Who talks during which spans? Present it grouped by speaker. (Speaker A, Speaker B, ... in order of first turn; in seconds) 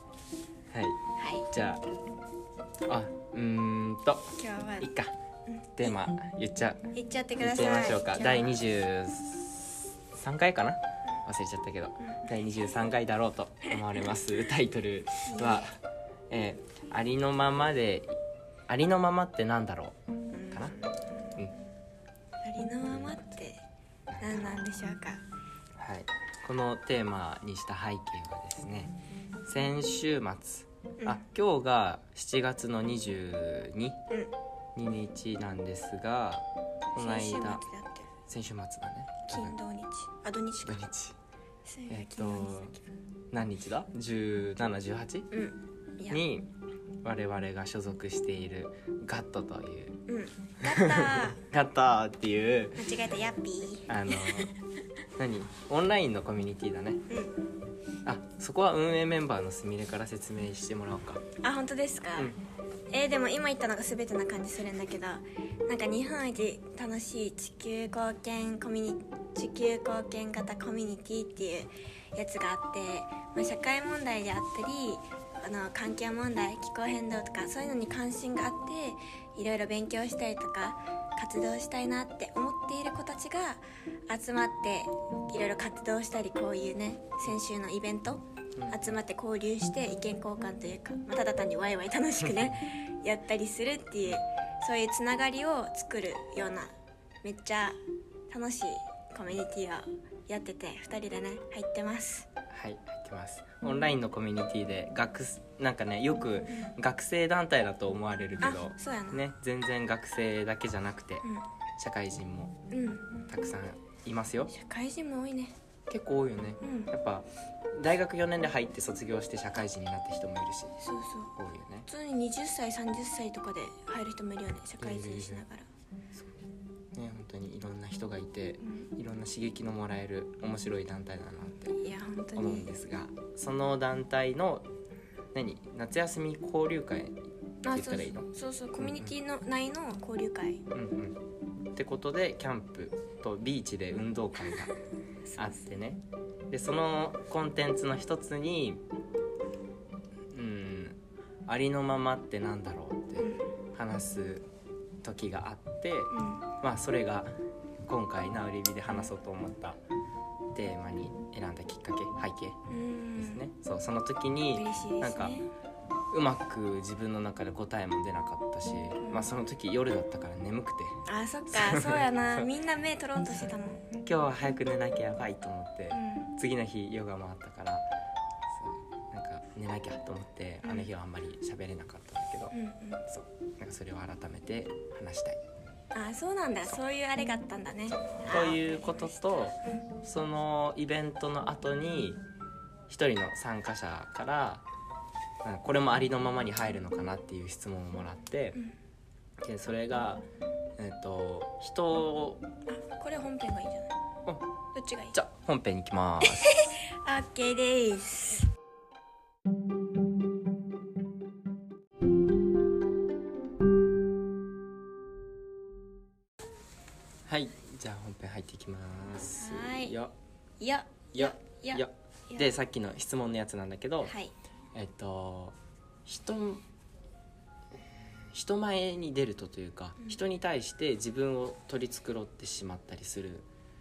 Speaker A: 0.7-1.8, 2.9-5.1, 5.8-15.8, 16.3-18.2, 18.7-20.0, 24.1-24.6, 25.8-34.0, 34.8-37.6, 38.3-39.5, 40.6-41.2, 41.9-42.8, 43.3-45.3, 46.1-46.5, 47.0-50.0, 50.6-52.9, 53.9-54.5, 55.2-57.0, 58.0-61.2, 88.6-89.0, 102.5-111.2, 111.8-112.6, 113.3-114.5, 115.9-120.8, 121.4-121.9, 124.8-125.4, 126.9-131.8, 132.4-134.7, 135.3-138.3, 138.8-139.1, 140.7-141.2, 141.7-144.7, 145.4-148.8, 150.3-154.5, 155.0-159.8, 160.5-162.6, 163.2-165.4, 166.1-172.5, 174.0-177.9, 178.5-182.5, 183.1-185.4, 188.3-192.2, 192.9-194.6, 195.4-198.6, 199.4-200.3, 200.8-202.4, 205.1-206.6, 217.3-220.1, 221.2-224.2, 224.7-226.6, 227.8-233.5
Speaker B: 1.2-1.5, 4.4-4.9, 5.5-5.9, 6.9-8.6, 12.0-12.3, 15.2-15.7, 20.3-21.3, 22.4-23.6, 24.2-25.2, 37.0-38.1, 39.3-40.8, 41.7-42.9, 45.3-46.2, 50.1-51.5, 52.8-54.5, 57.1-57.3, 61.4-62.4, 62.9-96.7, 97.2-97.8, 98.3-102.3, 108.4-109.2, 112.7-113.2, 114.5-115.5, 116.6-116.9, 120.8-121.3, 121.9-125.7, 128.6-128.9, 131.7-132.7, 137.6-140.6, 145.3-145.7, 153.2-153.5, 156.1-156.5, 162.7-163.4, 164.5-165.5, 169.0-169.3, 171.1-174.0, 175.9-176.3, 180.6-180.9, 182.5-183.0, 185.9-189.9, 202.7-203.9, 204.7-205.2, 206.2-208.5, 219.4-220.0, 220.6-222.6, 224.0-224.3